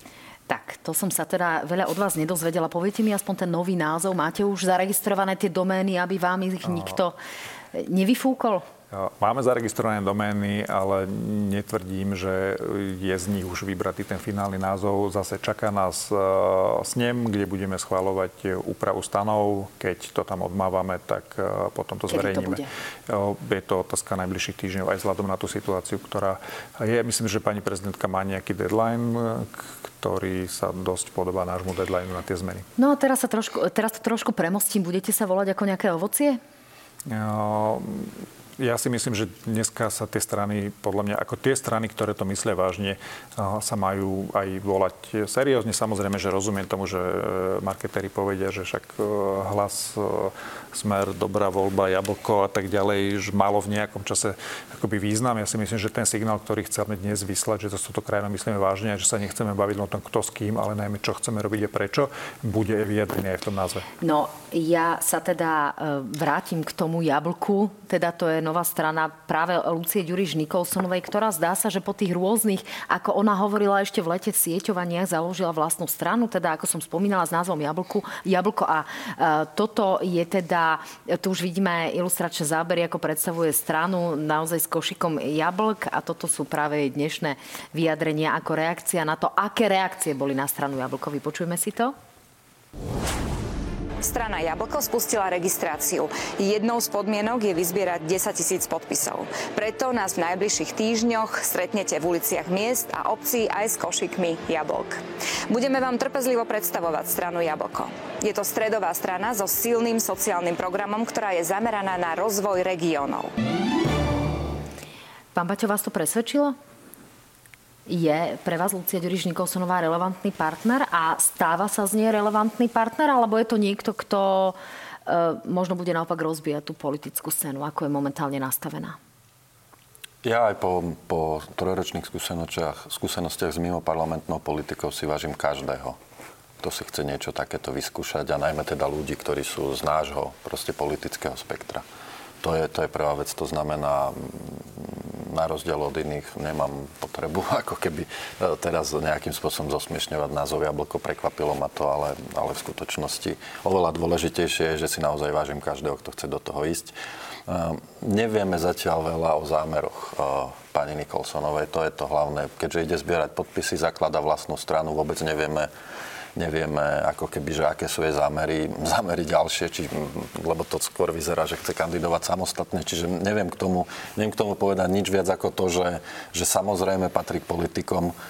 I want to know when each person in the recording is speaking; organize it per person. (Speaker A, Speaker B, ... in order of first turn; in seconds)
Speaker A: 0.5-7.2, 7.7-8.6, 22.1-22.7, 32.8-36.4, 64.0-91.9, 115.3-116.5, 117.9-129.0
Speaker B: 6.7-7.0, 8.9-32.7, 37.1-63.9
Speaker C: 94.0-113.3
Speaker D: 130.2-136.0, 136.6-141.8, 142.4-156.9, 157.5-165.7, 166.3-178.1